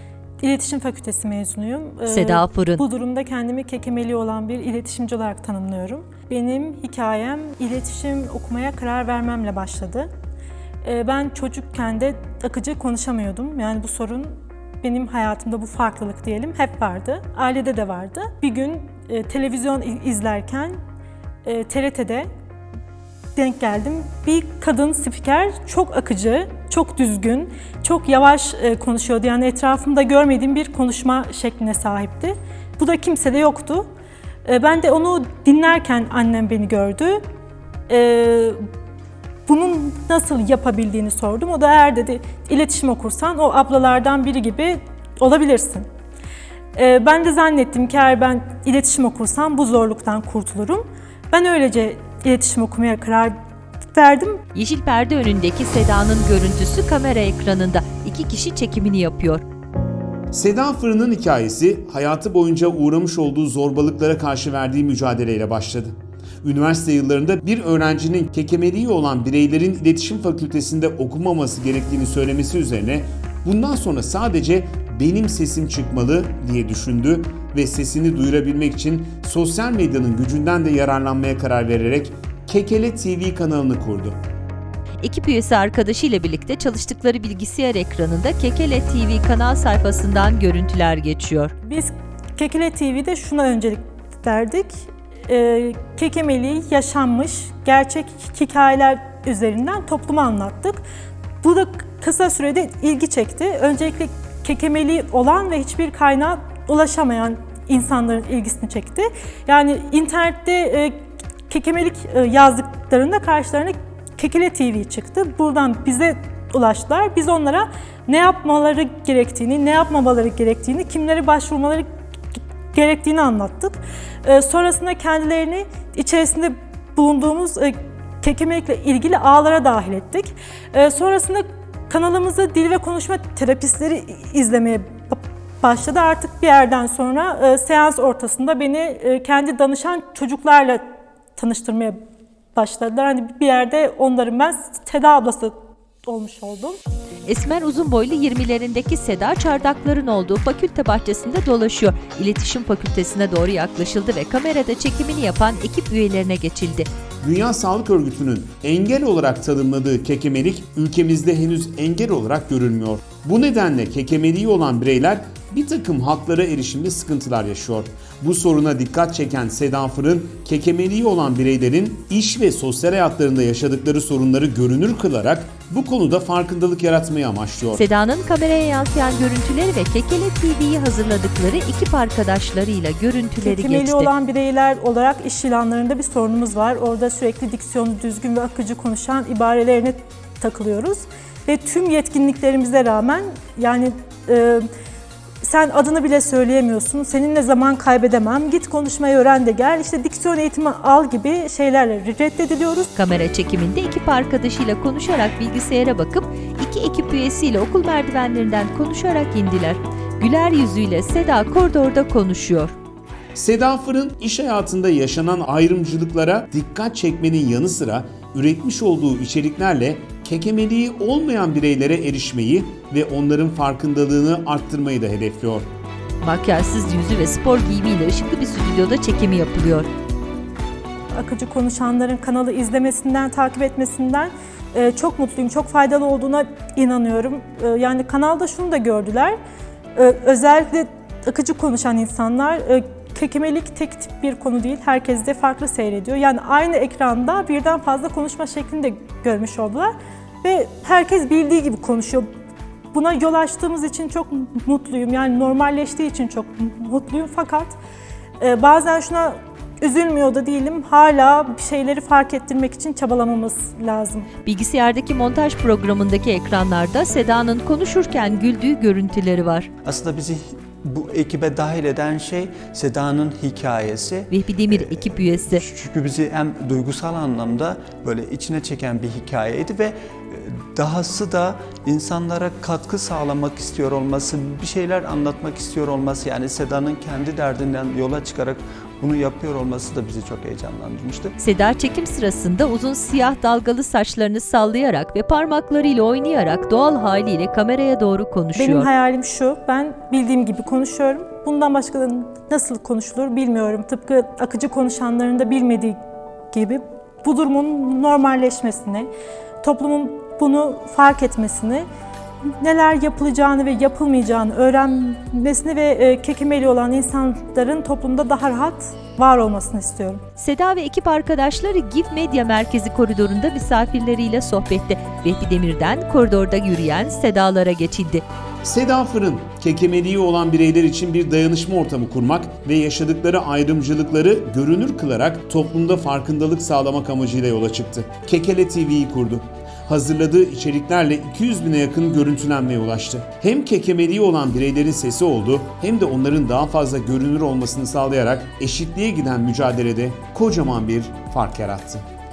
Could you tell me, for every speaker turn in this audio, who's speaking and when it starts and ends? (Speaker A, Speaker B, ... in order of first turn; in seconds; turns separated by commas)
Speaker A: 0.4-10.1, Speaker B: 2.1-2.8, Speaker A: 10.8-20.7, Speaker A: 21.4-22.3, Speaker A: 23.4-33.9, Speaker A: 34.4-37.2, Speaker A: 37.9-38.6, Speaker A: 39.5-45.9, Speaker A: 46.7-53.3, Speaker A: 53.9-54.4, Speaker B: 54.5-59.4, Speaker C: 60.3-84.2, Speaker B: 85.0-91.5, Speaker A: 91.6-100.8, Speaker A: 101.4-111.0, Speaker A: 111.5-121.9, Speaker A: 122.7-140.8, Speaker A: 141.4-142.0, Speaker A: 142.5-146.8, Speaker B: 147.2-156.9, Speaker C: 157.2-177.8, Speaker B: 177.7-184.1, Speaker A: 183.4-194.7, Speaker A: 195.4-202.9, Speaker B: 202.9-212.7, Speaker C: 213.3-225.7, Speaker B: 226.2-229.9, Speaker A: 231.1-239.4, Speaker A: 239.9-252.2, Speaker A: 252.9-257.8, Speaker A: 258.4-264.3, Speaker B: 264.4-269.7, Speaker D: 269.8-291.4, Speaker B: 274.3-275.6, Speaker B: 291.4-298.9, Speaker A: 298.5-306.0, Speaker A: 306.5-309.1, Speaker A: 309.6-311.8, Speaker A: 312.6-320.2, Speaker B: 320.4-328.2, Speaker C: 328.6-352.0